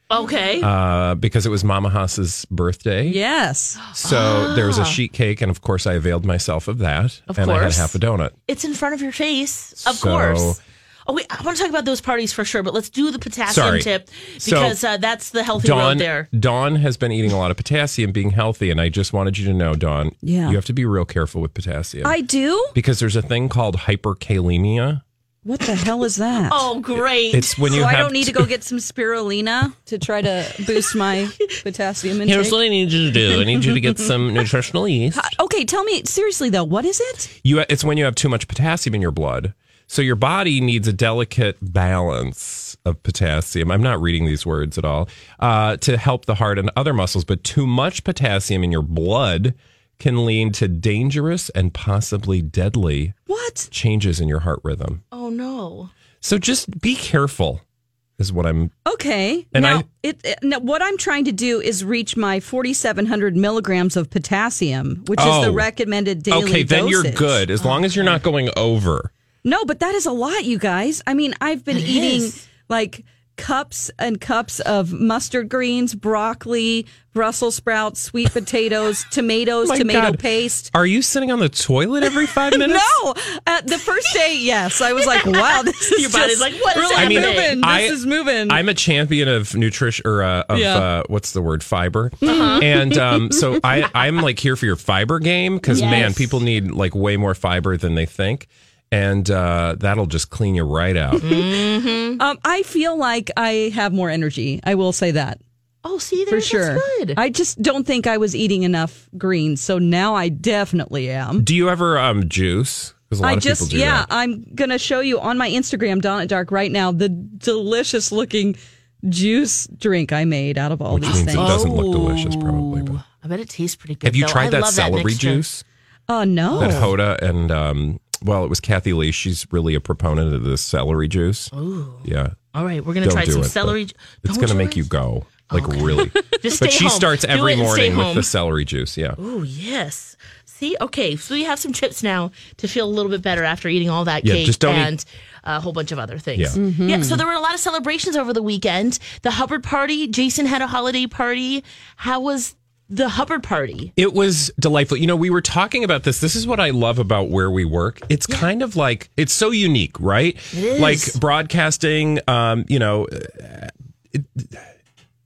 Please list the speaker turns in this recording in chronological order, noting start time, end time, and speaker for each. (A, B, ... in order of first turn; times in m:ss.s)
0:00.1-0:00.7 A
0:00.6-0:03.2 B
0:03.1-0:03.8 C
0:03.9-0:08.3 B
0:04.0-0:05.0 A
0:07.3-0:08.0 A
0:08.5-0:16.3 A
0:09.8-0:10.6 B
0:13.5-0:13.9 B
0:14.4-0:14.8 B
0:15.6-0:22.2 B
0:20.2-0:20.6 C
0:22.0-0:22.7 C
0:22.7-0:25.0 B
0:25.4-0:26.7 C
0:26.5-0:27.7 A
0:27.0-0:28.5 B
0:27.6-0:32.6 C
0:30.7-0:31.4 A
0:32.2-0:35.3 B
0:33.1-0:33.8 C
0:35.2-0:37.3 C
0:37.4-0:53.1 B
0:53.3-0:53.7 C
0:53.7-0:55.0 B
0:55.1-0:55.9 A
0:56.2-0:57.6 B
0:58.2-0:58.7 B
0:58.8-1:07.4 C
0:59.5-0:59.8 B
1:05.1-1:05.7 B
1:06.3-1:09.1 B
1:07.6-1:08.2 A
1:09.4-1:20.7 C
1:11.7-1:12.4 A
1:19.6-1:23.0 B
1:22.3-1:28.6 C
1:25.0-1:27.7 A
1:26.9-1:41.3 B
1:30.5-1:30.8 C
1:32.2-1:32.7 A
1:32.2-1:33.6 C
1:35.7-1:36.1 C
1:35.7-1:36.4 A
1:41.2-1:41.5 C
1:41.2-1:42.2 A
1:42.2-1:45.4 C
1:45.8-1:47.2 A
1:46.3-1:51.4 C
1:51.4-1:54.1 B
1:53.2-2:01.6 C
2:00.9-2:03.0 B
2:01.0-2:05.4 A
2:04.0-2:05.6 B
2:06.1-2:06.9 C
2:06.5-2:06.9 A
2:06.6-2:11.5 B
2:11.5-2:14.8 A
2:12.0-2:12.4 B
2:13.0-2:19.2 B
2:15.4-2:18.3 A
2:19.2-2:33.9 A
2:24.2-2:24.9 B
2:26.5-2:27.2 C
2:34.0-2:44.6 B
2:40.5-2:41.2 A